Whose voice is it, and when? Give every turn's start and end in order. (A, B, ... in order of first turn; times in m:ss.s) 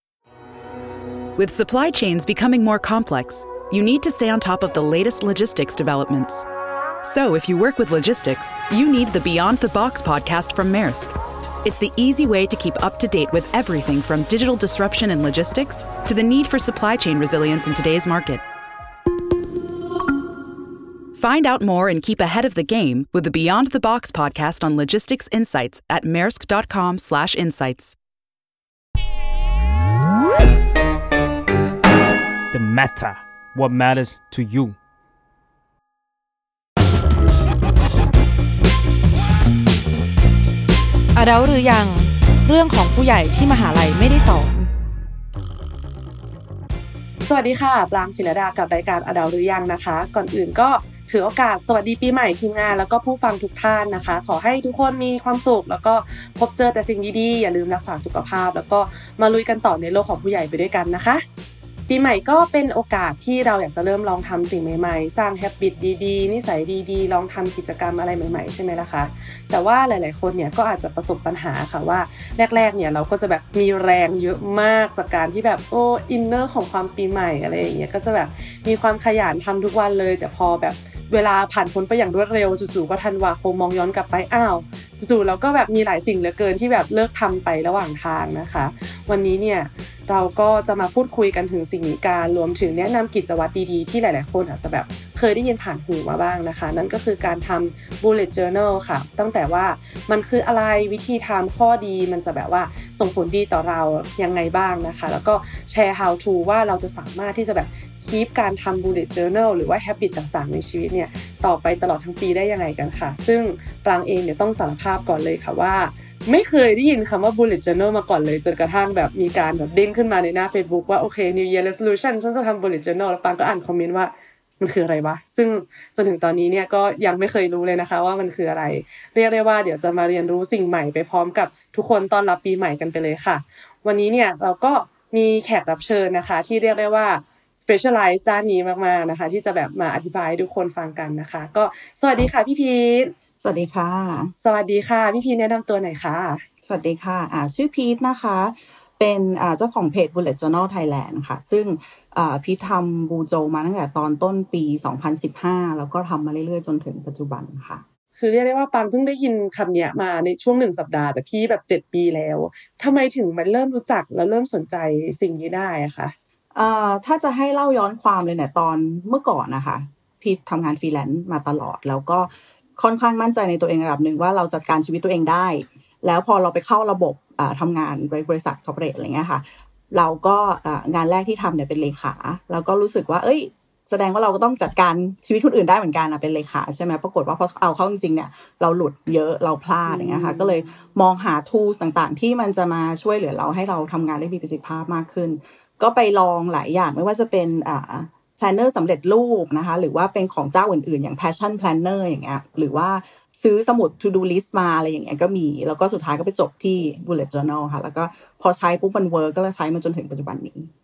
0:01.4-0:06.5 A
0:07.0-0:18.4 A
0:21.2-0:28.0 A
0:32.5-0:34.8 B
0:41.2-0:44.7 C
0:47.2-1:01.2 D
1:01.9-2:23.1 D
2:23.4-2:24.3 E
2:24.4-2:26.4 D
2:26.7-2:37.8 E
2:38.2-2:46.1 D
2:46.5-3:30.7 E
3:09.9-3:10.7 D